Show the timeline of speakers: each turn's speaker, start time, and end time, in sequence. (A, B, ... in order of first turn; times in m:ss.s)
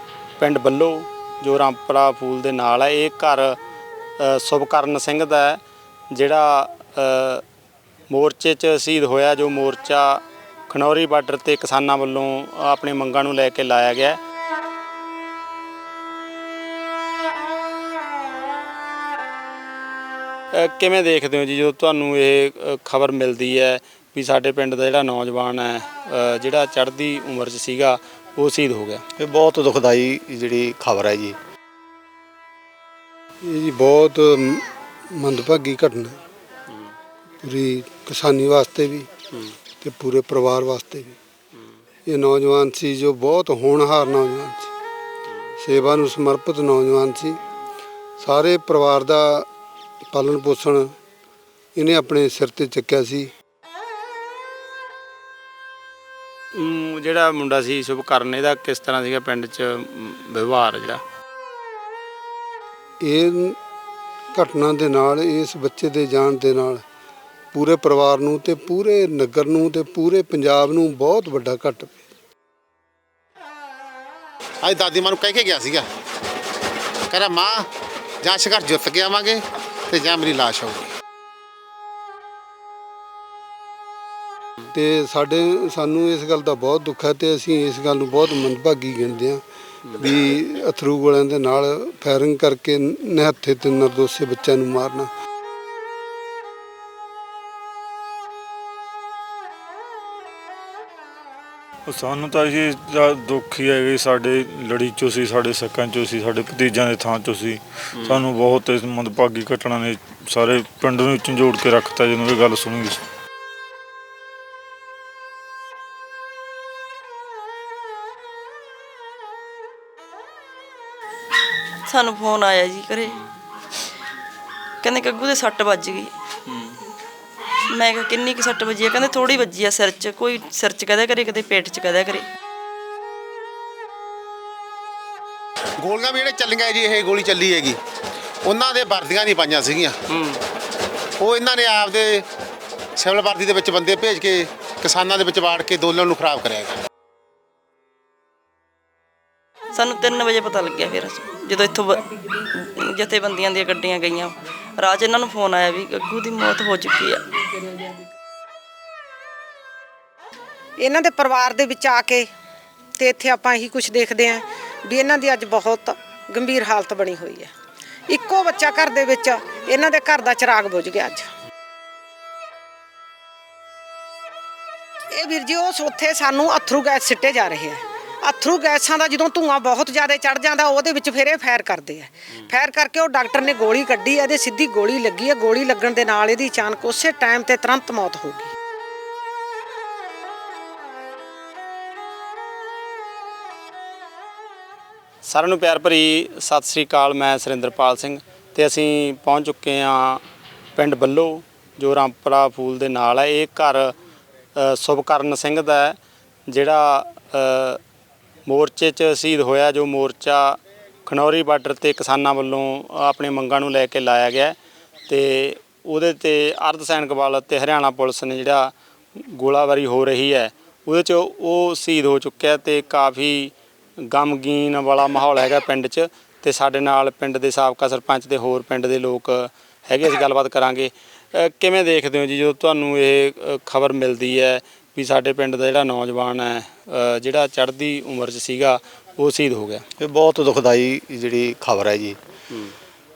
0:00.4-0:03.6 A
0:04.2-0:05.6 A
0:06.1-0:07.4 A
0:08.1-0:14.2 A
0:20.5-0:29.0 A
0:29.2-0:31.4 B
0:33.4-0:36.2 C
0:37.4-0:39.1 C
0:39.8-0:41.2 C
0:42.1-0:44.7 C
0:45.6-0:47.4 C
0:48.2-0:49.5 C
0:50.1-0:50.9 C
0:51.8-0:53.3 C
0:56.6-1:01.0 A
1:03.0-1:03.6 C
1:04.3-1:06.8 C
1:07.5-1:12.0 C
1:14.6-1:15.9 D
1:17.1-1:17.7 D
1:18.2-1:20.9 D
1:24.7-1:29.4 C
1:29.9-1:35.1 C
1:41.9-1:53.0 E
2:01.9-2:03.2 F
2:04.8-2:06.1 F
2:07.7-2:12.3 F
2:15.8-2:17.8 D
2:18.4-2:20.0 D
2:20.1-2:20.4 A
2:21.2-2:22.3 D
2:23.0-2:26.8 D
2:29.7-2:32.0 F
2:32.6-2:37.2 F
2:40.8-2:42.3 G
2:43.0-2:47.5 G
2:48.1-2:51.3 G
2:55.2-3:08.5 G
3:15.2-3:20.2 A
3:20.8-3:23.9 A
3:24.6-3:26.0 A
3:26.5-3:27.8 A
3:28.5-3:34.6 A
3:35.1-3:59.8 A
4:00.0-4:02.2 B